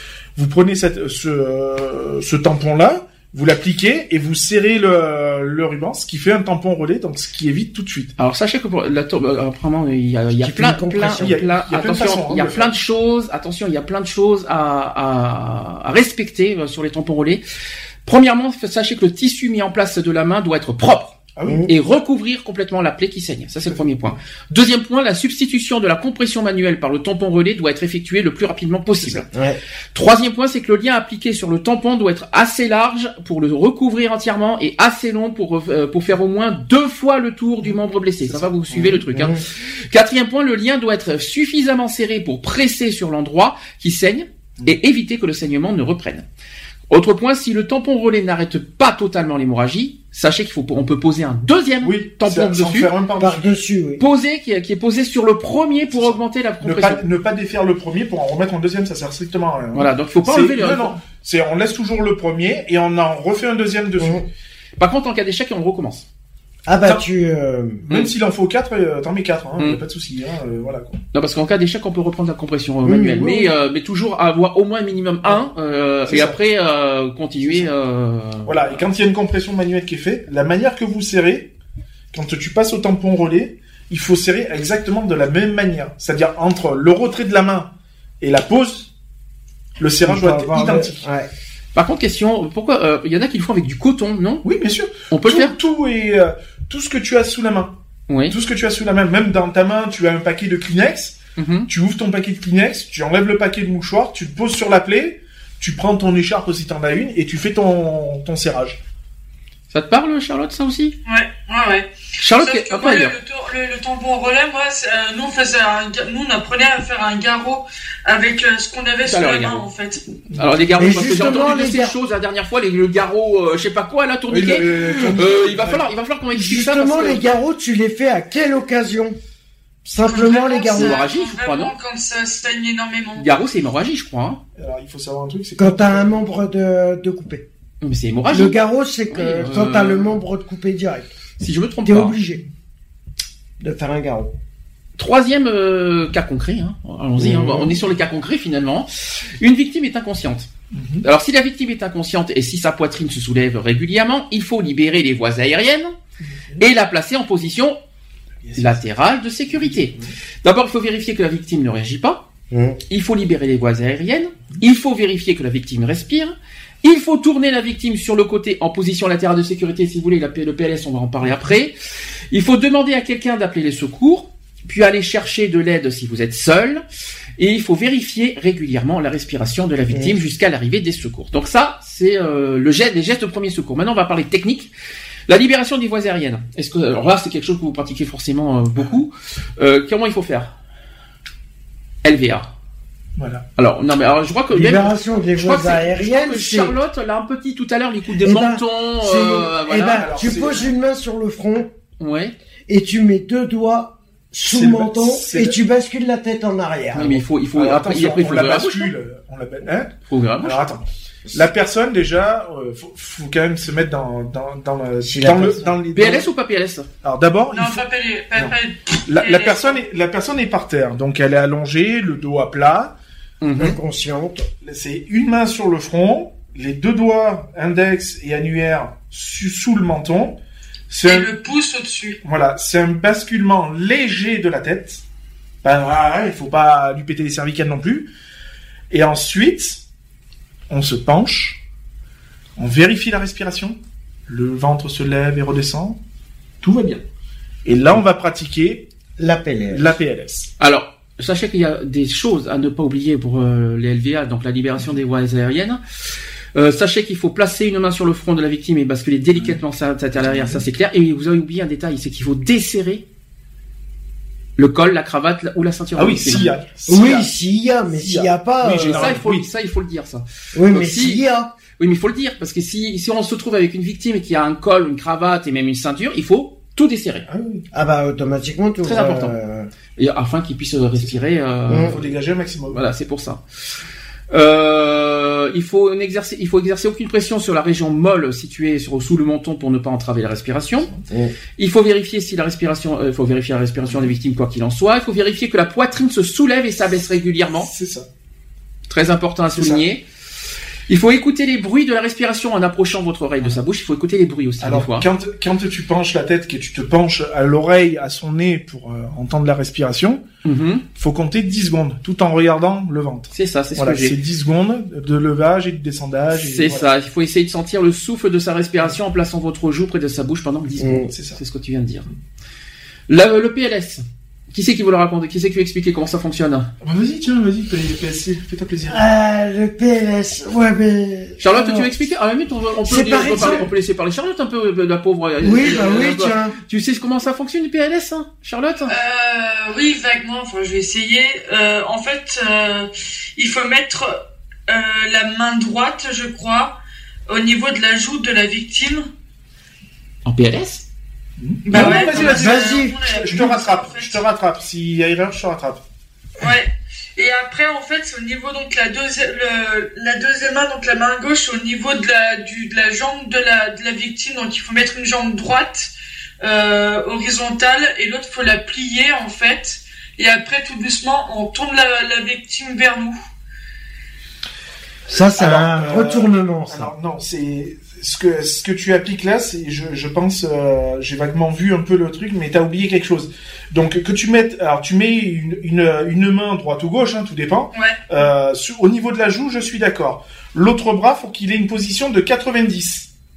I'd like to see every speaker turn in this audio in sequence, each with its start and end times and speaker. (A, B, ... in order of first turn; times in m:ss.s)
0:00.4-0:08.1 A
0:08.2-0:17.4 B
0:10.4-0:11.4 C
0:11.1-0:12.7 A
0:18.0-0:21.2 B
0:21.3-0:21.7 A
0:21.4-0:21.7 C
0:21.7-0:29.3 B
0:23.7-0:23.9 A
0:29.0-0:29.2 A
0:29.3-0:29.6 C
0:29.9-0:46.2 B
0:38.7-0:39.0 A
0:39.0-0:39.4 C
0:46.9-0:52.9 B
0:51.8-0:53.6 A
0:53.2-0:54.0 C
0:54.0-0:57.0 B
0:55.9-1:04.3 A
0:59.7-1:01.0 B
1:04.0-1:04.2 C
1:04.8-1:06.0 B
1:06.6-1:07.8 C
1:07.9-1:11.0 A
1:11.1-1:18.8 B
1:12.8-1:13.5 C
1:16.1-1:16.4 A
1:17.4-1:17.7 A
1:18.4-1:21.5 A
1:22.1-1:28.9 A
1:29.8-1:31.0 A
1:30.0-1:31.3 C
1:31.7-1:34.4 B
1:34.4-1:37.8 A
1:35.1-1:35.5 B
1:38.1-1:38.4 B
1:38.3-1:48.8 A
1:41.4-1:41.7 B
1:49.7-1:50.9 B
1:51.0-2:00.0 D
1:52.2-1:53.2 B
1:59.0-1:59.6 B
2:00.3-2:01.4 A
2:00.3-2:07.3 B
2:00.8-2:02.0 C
2:04.3-2:05.9 A
2:06.3-2:09.2 C
2:09.8-2:11.0 C
2:10.0-2:13.2 D
2:10.7-2:11.7 B
2:13.2-2:14.4 B
2:14.6-2:16.2 A
2:15.6-2:17.4 C
2:17.8-2:20.2 B
2:18.3-2:21.1 C
2:21.4-2:22.2 B
2:21.8-2:22.4 C
2:23.6-2:24.3 C
2:25.0-2:30.5 B
2:27.2-2:27.8 A
2:30.7-2:31.0 A
2:31.0-2:35.9 B
2:36.3-2:36.6 A
2:36.6-2:37.8 B
2:38.4-2:38.8 A
2:38.6-2:42.2 B
2:39.5-2:40.1 A
2:42.5-2:42.8 C
2:42.9-2:51.8 B
2:52.3-2:56.8 B
2:57.4-3:04.7 B
3:05.3-3:10.5 B
3:12.0-3:12.5 B
3:13.2-3:13.4 A
3:13.6-3:20.1 B
3:14.5-3:16.8 C
3:18.2-3:21.7 C
3:19.9-3:20.7 A
3:22.0-3:22.3 B
3:22.7-3:27.2 C
3:24.5-3:25.6 A
3:26.9-3:28.9 B
3:27.5-3:36.3 A
3:30.1-3:30.6 B
3:35.0-3:35.8 C
3:35.9-3:36.9 B
3:37.0-3:37.8 A
3:37.5-3:39.8 D
3:39.1-3:43.0 A
3:43.4-3:43.8 B
3:43.6-3:44.5 C
3:44.6-3:51.3 A
3:51.0-3:52.2 D
3:52.2-3:55.0 A
3:55.6-3:58.1 A
3:58.9-3:59.8 A
4:00.7-4:01.6 A
4:02.6-4:03.8 A
4:04.3-4:06.0 A
4:06.6-4:07.0 A
4:07.6-4:08.9 A
4:09.2-4:10.0 C
4:09.7-4:10.5 A
4:10.6-4:15.8 B
4:16.5-4:23.0 B
4:20.2-4:20.6 A
4:24.6-4:26.5 B
4:26.0-4:27.3 A
4:26.9-4:29.2 C
4:27.9-4:29.5 A
4:28.6-4:31.2 B
4:30.5-4:31.5 C
4:31.8-4:37.3 B
4:37.3-4:37.7 A
4:37.7-4:39.7 C
4:38.8-4:39.3 B
4:40.0-4:42.0 B
4:41.7-4:41.9 C
4:41.7-4:42.8 A
4:42.7-4:43.4 B
4:44.3-4:50.9 B
4:51.1-4:51.3 C
4:51.6-4:57.7 B
4:57.6-4:58.1 A
4:58.9-5:00.0 B
4:59.5-4:59.8 A
5:00.9-5:05.1 B
5:04.6-5:10.2 A
5:10.4-5:10.8 B
5:10.9-5:16.9 A
5:13.3-5:14.2 B
5:16.3-5:22.1 B
5:20.8-5:21.1 C
5:21.1-5:21.4 A
5:23.1-5:26.7 B
5:26.8-5:29.0 A
5:28.9-5:31.9 C
5:31.4-5:38.9 B
5:32.8-5:33.7 C
5:33.3-5:33.6 A
5:35.4-5:36.5 C
5:38.9-5:46.8 D
5:47.3-5:49.1 D
5:50.2-5:50.8 B
5:51.4-5:55.8 A
5:51.6-5:54.2 D
5:51.7-5:53.0 C
5:56.4-6:13.2 D
6:15.1-6:16.9 C
6:15.4-6:33.1 A